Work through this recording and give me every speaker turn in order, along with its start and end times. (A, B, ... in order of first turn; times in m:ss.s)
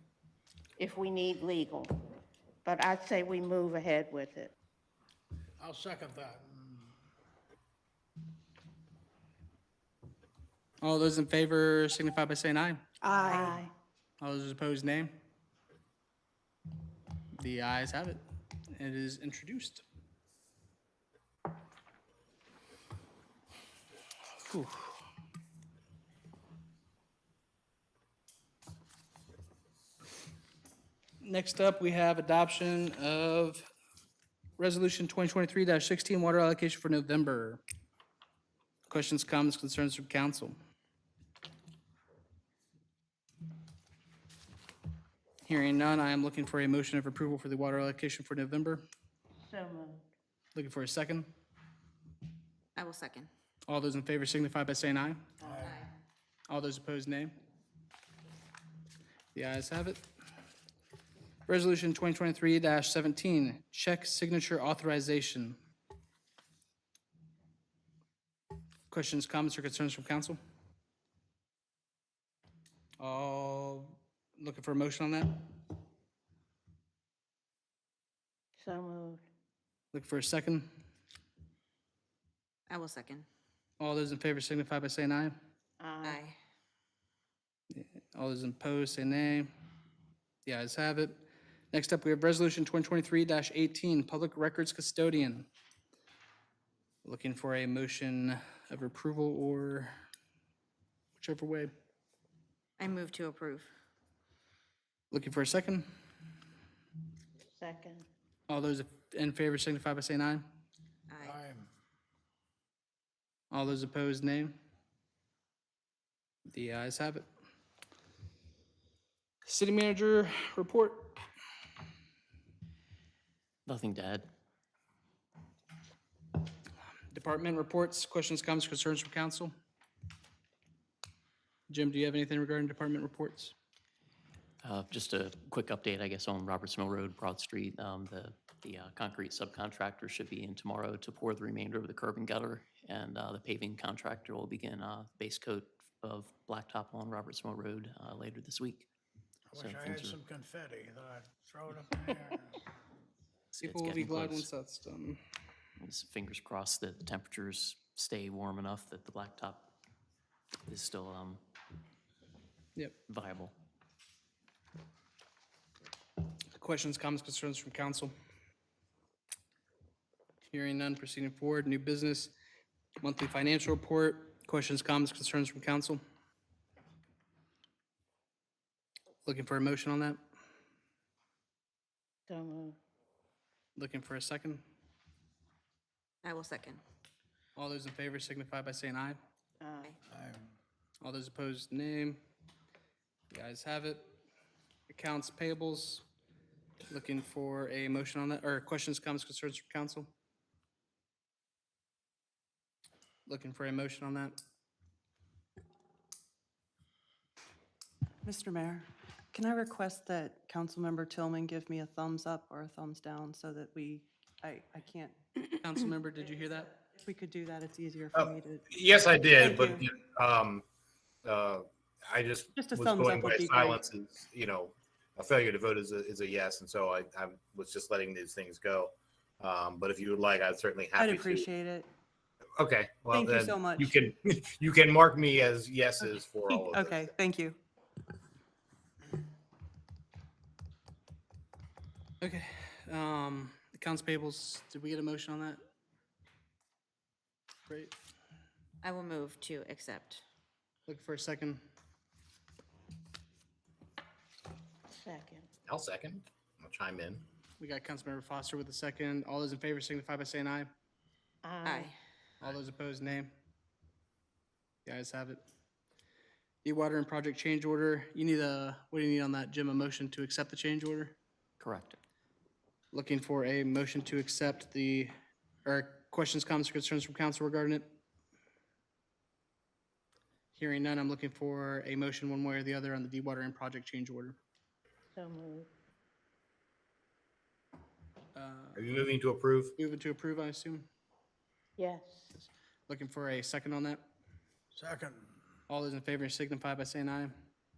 0:00.8-0:01.9 A
0:02.6-0:04.5 A
0:05.6-0:06.9 B
0:10.8-0:12.8 C
0:13.0-0:13.7 A
0:14.2-0:15.2 C
0:17.3-0:19.8 C
0:24.4-0:24.9 C
0:31.2-0:33.6 C
0:34.6-0:37.6 C
0:38.9-0:40.6 C
0:45.4-0:48.8 C
0:49.5-0:50.0 A
0:50.6-0:51.3 C
0:52.8-0:53.3 D
0:53.7-0:55.2 C
0:55.4-0:55.7 A
0:55.4-0:55.8 B
0:55.6-0:55.9 D
0:56.5-0:57.3 C
0:59.3-1:00.0 C
1:01.5-1:05.6 C
1:08.9-1:10.4 C
1:13.0-1:15.5 C
1:18.6-1:19.2 A
1:19.9-1:20.7 C
1:22.7-1:23.2 D
1:23.8-1:25.4 C
1:25.8-1:26.3 A
1:26.0-1:26.4 D
1:27.7-1:29.5 C
1:30.4-1:35.5 C
1:37.0-1:39.9 C
1:41.2-1:41.7 C
1:42.8-1:43.7 D
1:45.1-1:45.9 C
1:47.6-1:48.0 A
1:48.5-1:50.5 C
1:51.1-1:51.4 D
1:51.2-1:51.7 B
1:53.5-1:54.6 C
1:56.5-1:57.3 C
1:59.4-2:01.2 C
2:03.7-2:04.3 E
2:07.1-2:09.5 C
2:11.7-2:13.6 C
2:14.6-2:28.9 E
2:29.5-2:32.6 B
2:29.6-2:30.2 E
2:33.5-2:34.5 E
2:33.6-2:35.2 C
2:35.8-2:39.7 E
2:40.7-2:41.4 E
2:43.1-2:43.6 E
2:46.6-2:48.1 C
2:50.5-2:52.3 C
2:53.0-2:56.0 C
2:59.2-3:00.2 C
3:02.3-3:02.8 A
3:03.8-3:04.6 C
3:06.2-3:06.8 D
3:07.6-3:09.2 C
3:09.6-3:10.0 A
3:10.1-3:10.5 B
3:11.0-3:12.2 C
3:13.3-3:14.0 C
3:14.9-3:16.0 C
3:16.9-3:20.1 C
3:23.2-3:24.3 C
3:28.2-3:35.2 F
3:35.6-3:36.8 C
3:37.0-3:38.8 F
3:38.2-3:40.6 G
3:39.3-3:39.8 F
3:41.2-3:51.5 G
3:42.6-3:43.8 F
3:51.0-3:51.9 F
3:52.6-3:57.1 G
3:53.1-3:54.0 F
3:56.5-3:57.6 F
4:02.2-4:05.6 C
4:07.7-4:07.9 C
4:08.8-4:10.2 D
4:10.9-4:11.6 C
4:15.0-4:15.5 A
4:15.7-4:17.2 G
4:17.6-4:20.7 C
4:21.4-4:21.9 A
4:21.6-4:21.9 D
4:22.4-4:23.3 C
4:24.9-4:25.4 C
4:26.6-4:31.2 C
4:31.6-4:32.0 E
4:32.9-4:35.1 C
4:35.6-4:37.9 C
4:40.6-4:44.4 C
4:45.1-4:45.7 A
4:48.4-4:48.9 C
4:48.8-4:49.8 G
4:49.8-4:50.9 C
4:51.8-4:52.3 A
4:52.9-4:54.0 C
4:54.7-4:55.3 B
4:55.7-4:57.4 C